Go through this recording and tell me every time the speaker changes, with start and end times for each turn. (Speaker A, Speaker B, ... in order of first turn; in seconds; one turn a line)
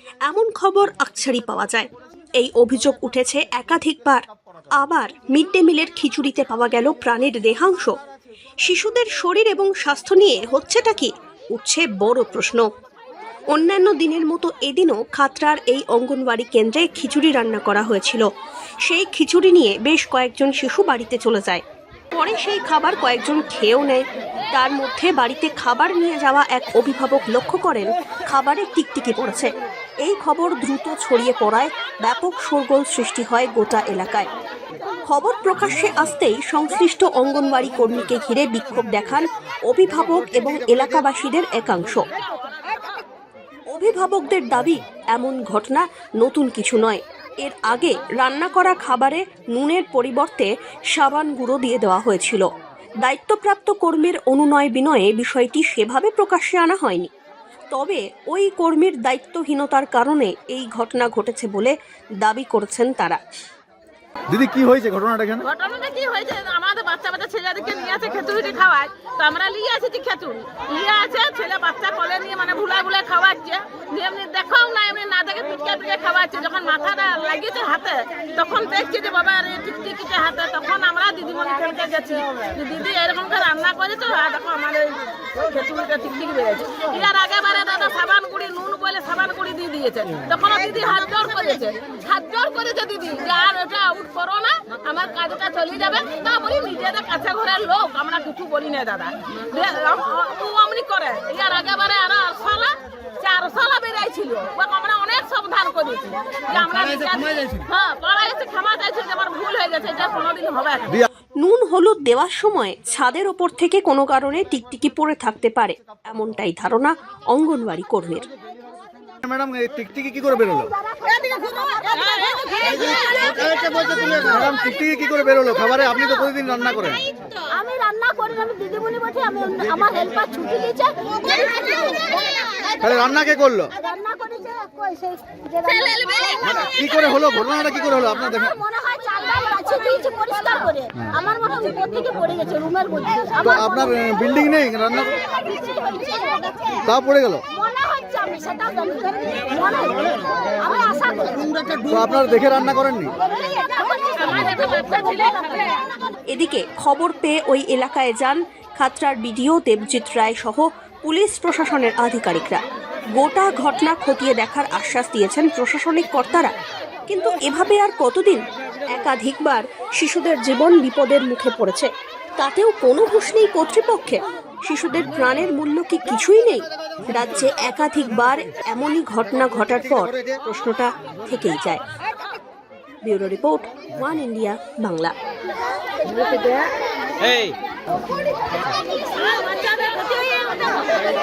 Speaker A: 0.2-8.0
Speaker A: 8.6-12.7
Speaker A: 13.5-18.2
Speaker A: 18.8-29.5
Speaker A: 30.0-34.3
Speaker A: 35.0-42.1
Speaker A: 43.7-52.5
Speaker A: 53.0-57.1
Speaker A: 57.7-63.2
Speaker B: 64.3-65.4
Speaker C: 65.4-111.0
Speaker A: 111.4-118.3
Speaker B: 119.2-120.7
Speaker D: 120.8-124.4
Speaker B: 124.2-127.0
Speaker D: 127.5-132.2
Speaker B: 129.6-130.0
Speaker B: 132.8-133.7
Speaker D: 133.7-136.8
Speaker B: 136.4-138.5
Speaker D: 138.5-143.8
Speaker B: 143.4-145.2
Speaker D: 145.1-146.8
Speaker B: 146.8-147.4
Speaker D: 147.6-151.6
Speaker B: 151.9-153.1
Speaker D: 153.3-156.0
Speaker C: 153.9-155.8
Speaker A: 156.3-162.6
Speaker A: 163.1-166.5
Speaker A: 167.1-181.8
Speaker A: 183.0-185.1
Speaker D: 186.1-186.7
Speaker C: 186.1-186.6
Speaker C: 189.1-191.1